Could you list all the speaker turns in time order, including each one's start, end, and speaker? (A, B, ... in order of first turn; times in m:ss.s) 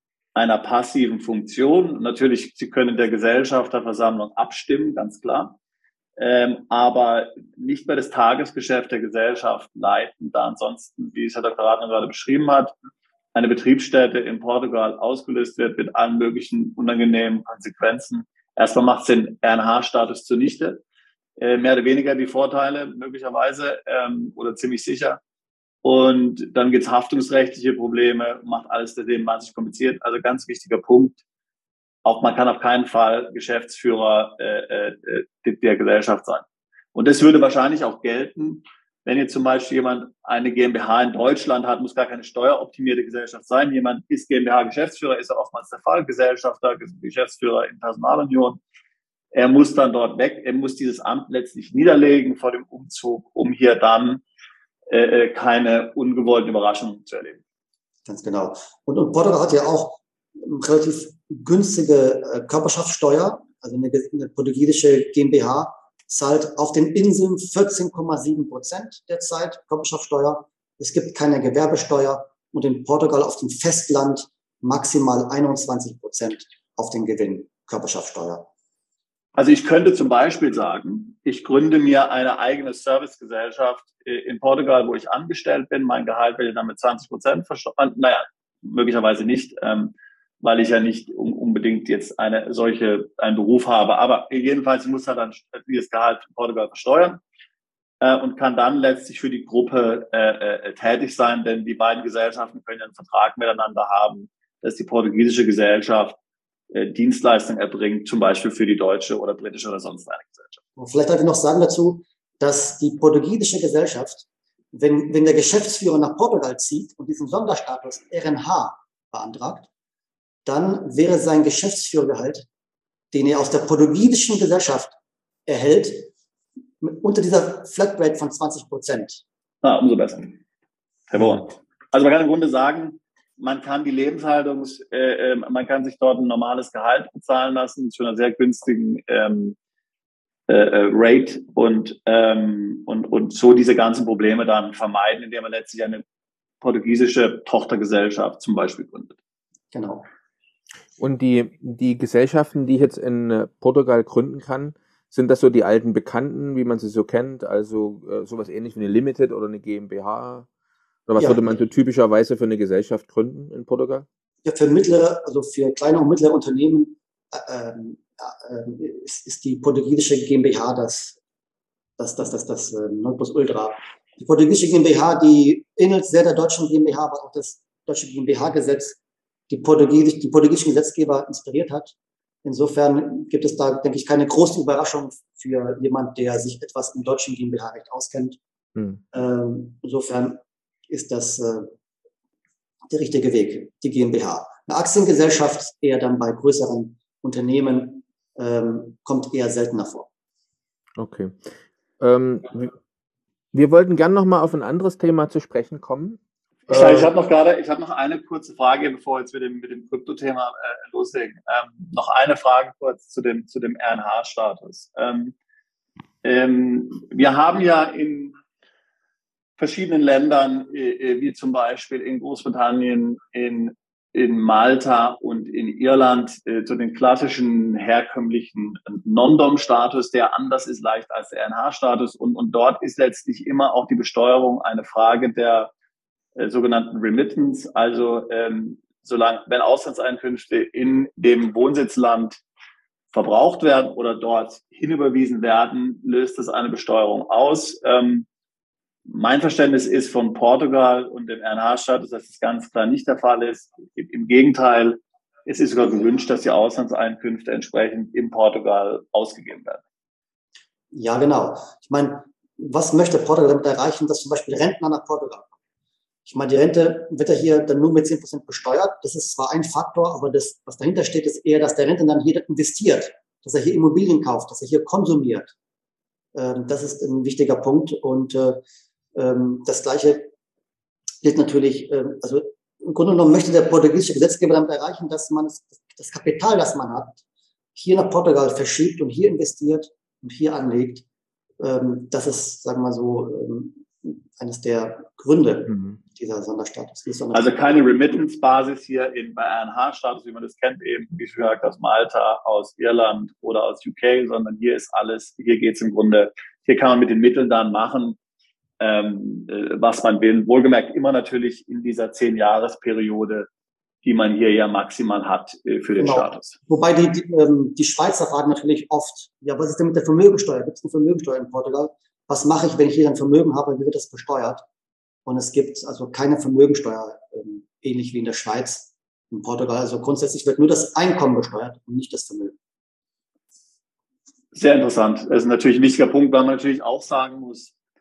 0:00.3-0:05.6 A
0:06.2-0:12.7 A
0:13.3-0:20.8 A
0:21.4-0:25.2 A
0:25.8-0:31.2 A
0:32.0-0:48.6 A
0:49.3-0:54.2 A
0:54.9-0:57.4 A
0:58.0-1:18.5 B
1:19.4-1:37.2 A
1:38.0-1:46.2 A
1:46.7-1:50.6 A
1:50.8-1:59.7 B
2:00.4-2:02.4 B
2:03.1-2:04.9 B
2:05.4-2:06.1 B
2:06.8-2:09.2 B
2:09.6-2:10.4 A
2:11.1-2:19.6 A
2:20.5-2:26.0 A
2:26.6-2:29.2 A
2:29.7-2:30.0 B
2:31.0-2:40.5 C
2:41.1-2:44.0 C
2:41.2-2:41.5 B
2:44.4-2:51.2 B
2:52.0-2:59.0 B
2:59.5-3:08.4 B
3:08.8-3:09.0 C
3:09.1-3:11.7 B
3:12.9-3:20.1 B
3:21.0-3:21.5 C
3:22.0-3:22.7 C
3:23.5-3:27.1 C
3:26.7-3:35.3 A
3:36.2-3:38.4 A
3:39.6-3:55.7 A
3:56.4-4:02.4 A
4:03.1-4:08.3 A
4:09.1-4:19.8 A
4:20.9-4:25.5 B
4:26.2-4:35.5 B
4:36.3-4:38.6 B
4:39.1-4:40.3 B
4:41.2-4:47.2 B
4:47.7-4:51.0 B
4:51.6-4:57.5 B
4:55.7-4:56.0 C
4:57.3-5:08.2 A
5:08.8-5:13.5 A
5:14.0-5:16.6 A
5:16.0-5:24.6 B
5:25.2-5:32.6 B
5:34.5-5:37.7 A